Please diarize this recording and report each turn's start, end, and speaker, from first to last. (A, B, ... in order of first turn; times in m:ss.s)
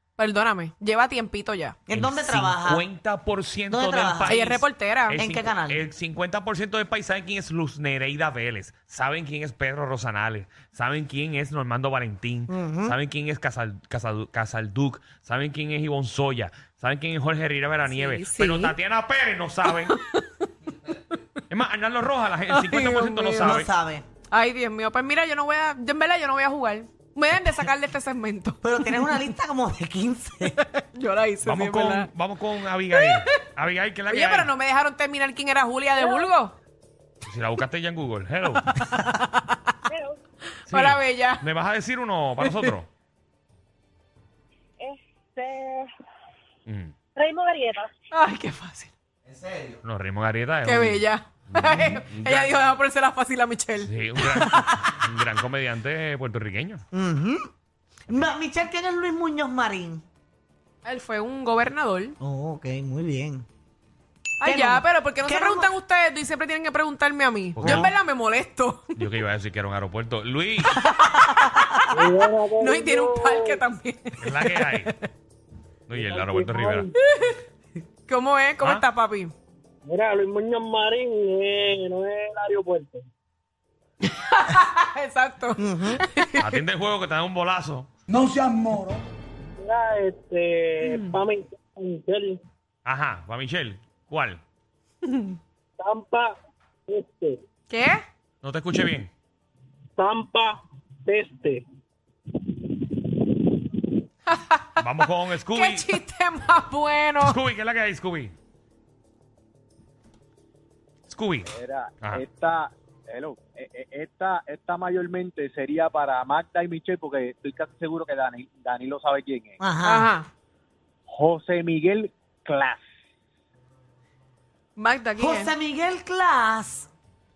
0:00.2-0:01.8 A
0:01.9-0:02.9 B
0:01.9-0:19.9 C
0:03.7-0:05.9 B
0:04.2-0:05.2 A
0:12.5-0:13.0 B
0:17.9-0:18.7 A
0:19.8-0:20.5 A
0:21.5-0:23.7 C
0:22.5-0:23.6 A
0:23.4-0:24.0 B
0:24.3-0:28.6 A
0:28.6-0:30.6 B
0:30.6-0:32.1 A
0:31.4-0:34.5 C
0:32.9-0:33.2 A
0:34.1-0:36.6 A
0:37.3-0:38.8 C
0:38.7-0:39.7 A
0:40.6-0:41.4 A
0:40.7-0:42.9 C
0:46.7-0:46.9 C
0:48.1-0:48.9 A
0:49.8-0:52.6 C
0:50.6-0:55.0 A
0:53.8-0:56.8 C
0:56.9-0:57.5 B
0:58.1-1:00.0 B
1:00.8-1:02.2 A
1:02.2-1:03.5 B
1:04.4-1:09.0 A
1:04.4-1:05.7 B
1:07.6-1:07.9 C
1:09.0-1:10.8 C
1:11.0-1:11.6 A
1:11.4-1:12.0 B
1:11.9-1:13.5 D
1:12.6-1:14.9 A
1:14.2-1:15.0 C
1:15.9-1:16.9 C
1:15.9-1:16.9 D
1:17.1-1:17.4 A
1:18.1-1:19.3 A
1:19.8-1:23.0 D
1:24.0-1:26.5 A
1:25.6-1:26.0 B
1:26.4-1:27.9 C
1:29.6-1:32.4 D
1:30.8-1:31.1 A
1:32.8-1:34.4 C
1:35.0-1:35.4 A
1:35.8-1:36.3 D
1:36.9-1:37.4 D
1:37.7-1:38.0 A
1:38.4-1:39.1 C
1:40.0-1:41.6 D
1:44.3-1:44.7 A
1:44.8-1:45.9 C
1:45.5-1:47.4 A
1:47.3-1:48.4 C
1:51.1-1:52.2 C
1:51.5-1:59.6 E
1:59.6-2:00.1 B
1:59.8-2:00.3 A
2:01.1-2:02.8 E
2:04.8-2:05.5 A
2:05.2-2:06.9 B